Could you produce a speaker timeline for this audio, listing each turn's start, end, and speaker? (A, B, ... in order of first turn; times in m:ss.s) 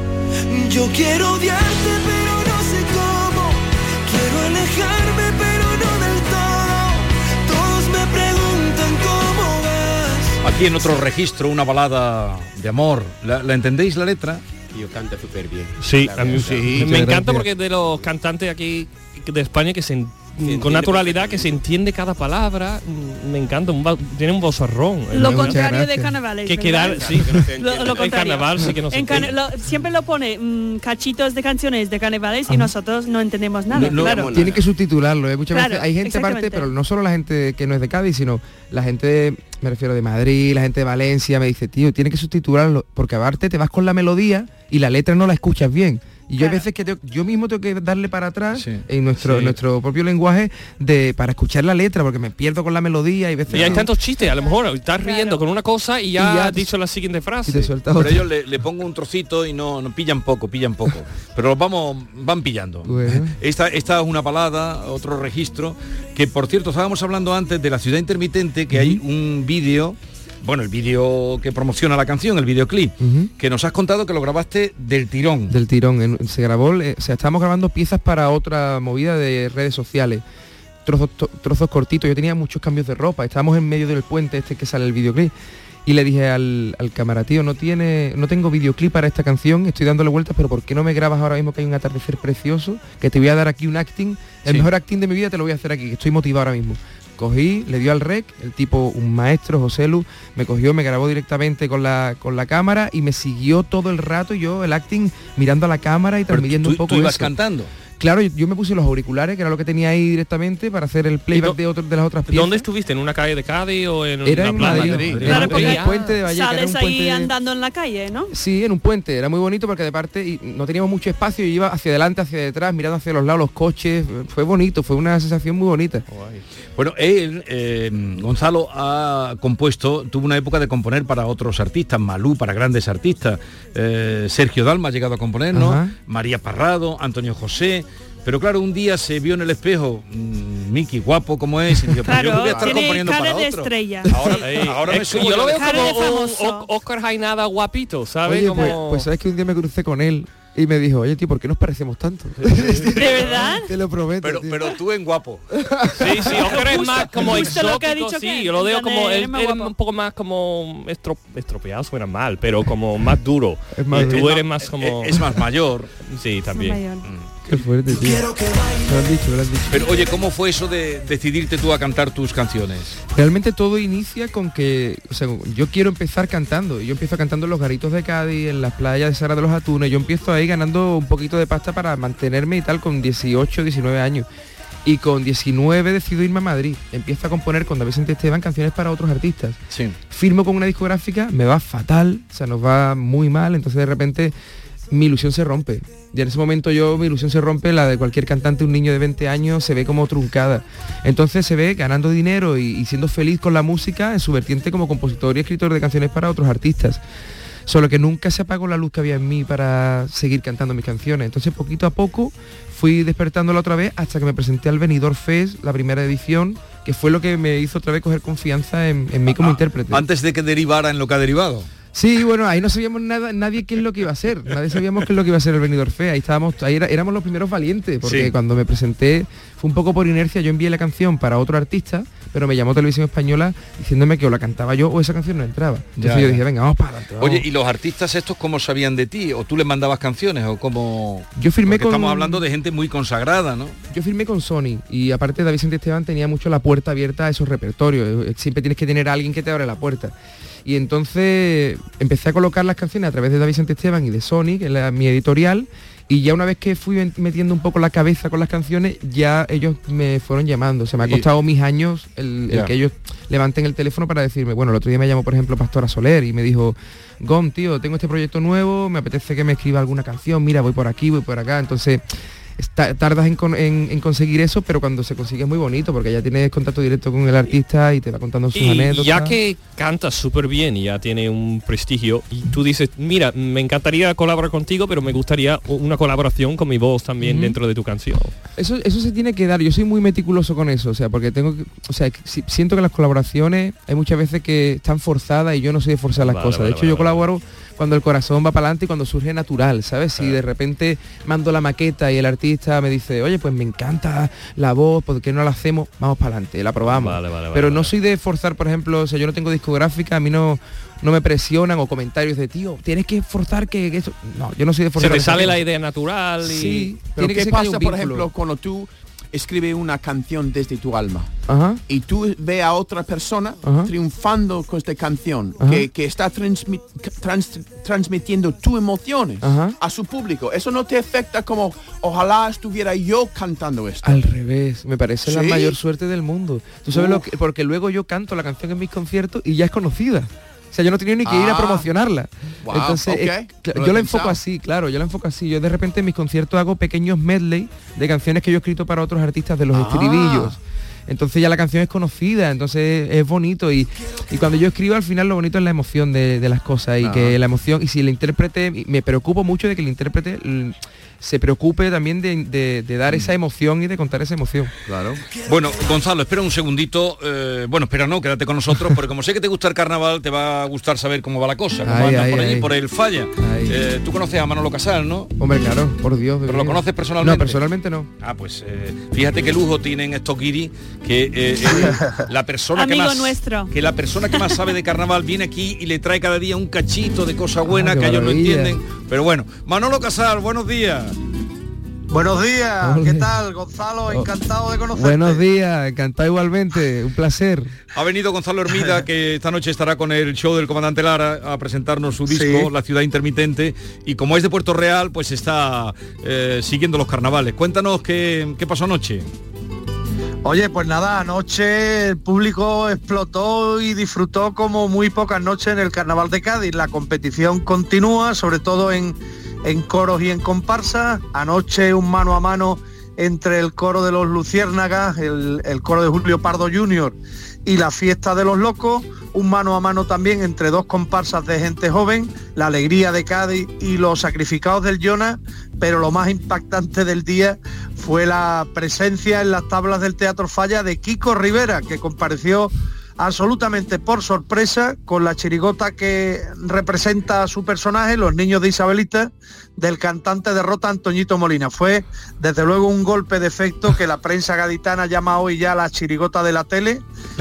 0:00.5-0:10.4 A
0:10.4-0:14.4 B
0:14.7-0:16.7 C
0:15.8-0:25.6 D
0:16.4-0:16.9 E
0:16.7-0:17.4 F
0:20.4-0:21.6 C
0:25.1-0:34.3 G
0:25.2-0:26.1 F
0:26.4-0:29.4 D
0:26.8-0:28.4 C
0:33.7-0:34.6 C
0:34.3-0:53.9 F
0:35.5-0:36.7 G
0:46.4-0:46.6 G
0:48.5-0:49.6 B
0:53.5-0:57.7 D
0:53.5-0:53.8 B
0:55.0-0:55.4 G
0:56.2-0:56.7 F
0:57.4-0:58.2 F
0:57.9-1:15.6 B
1:02.8-1:03.3 F
1:08.7-1:09.0 F
1:13.0-1:13.3 F
1:15.5-1:20.2 F
1:20.8-1:25.3 F
1:25.8-1:47.3 F
1:46.3-1:47.7 B
1:48.0-1:52.6 F
1:51.3-1:51.6 D
1:52.3-1:56.2 D
1:54.2-1:57.3 F
1:54.6-1:55.5 E
1:55.2-1:58.3 G
1:58.3-2:06.0 F
2:06.1-2:06.4 D
2:06.8-2:25.8 B
2:15.5-2:15.9 F
2:22.0-2:24.5 G
2:24.2-2:29.1 D
2:25.5-2:26.7 G
2:28.2-2:34.7 F
2:32.4-2:33.5 D
2:33.0-2:33.7 G
2:34.2-2:35.4 B
2:35.5-2:36.3 F
2:36.0-2:45.4 D
2:36.3-2:36.8 B
2:36.5-2:39.7 G
2:43.7-2:44.3 F
2:43.9-2:45.9 B
2:46.1-2:46.8 D
2:46.5-2:47.0 G
2:47.5-2:48.3 F
2:47.9-2:49.1 A
2:48.9-2:49.9 F
2:49.7-2:53.0 B
2:53.1-3:04.2 F
3:04.8-3:09.6 F
3:09.7-3:10.0 B
3:10.1-3:14.3 F
3:14.9-3:27.0 F
3:27.7-3:40.0 F
3:39.3-3:41.7 B
3:41.9-3:57.4 F
3:48.0-3:48.3 B
3:56.0-3:56.4 B
3:57.2-4:03.8 B
4:01.4-4:02.4 F
4:03.9-4:10.1 F
4:10.6-4:32.0 F
4:32.6-4:39.4 F
4:38.5-4:48.3 D
4:47.2-4:47.6 F
4:48.6-5:15.6 F
4:56.2-4:57.2 D
5:06.8-5:07.9 D
5:15.0-5:16.9 D
5:16.4-5:18.3 F
5:17.1-5:21.3 E
5:21.5-5:21.8 F
5:21.9-5:34.2 E
5:23.6-5:23.9 F
5:29.4-5:29.8 F
5:34.0-5:50.6 F
5:35.2-5:35.8 E
5:36.9-5:37.3 E
5:41.2-5:41.9 E
5:42.6-5:44.4 E
5:49.7-5:50.6 E
5:51.1-6:04.7 F
5:57.0-5:57.3 E
6:05.4-6:15.3 B
6:11.8-6:12.7 F
6:13.4-6:13.8 F
6:15.4-6:18.1 F
6:16.5-6:17.6 B
6:18.2-6:31.2 B
6:22.7-6:23.7 G
6:24.3-6:24.6 G
6:27.7-6:28.8 F
6:32.1-6:35.4 H
6:32.8-6:33.2 F
6:34.9-6:37.7 F
6:37.9-6:49.3 B
6:42.3-6:42.7 H
6:50.4-7:37.0 H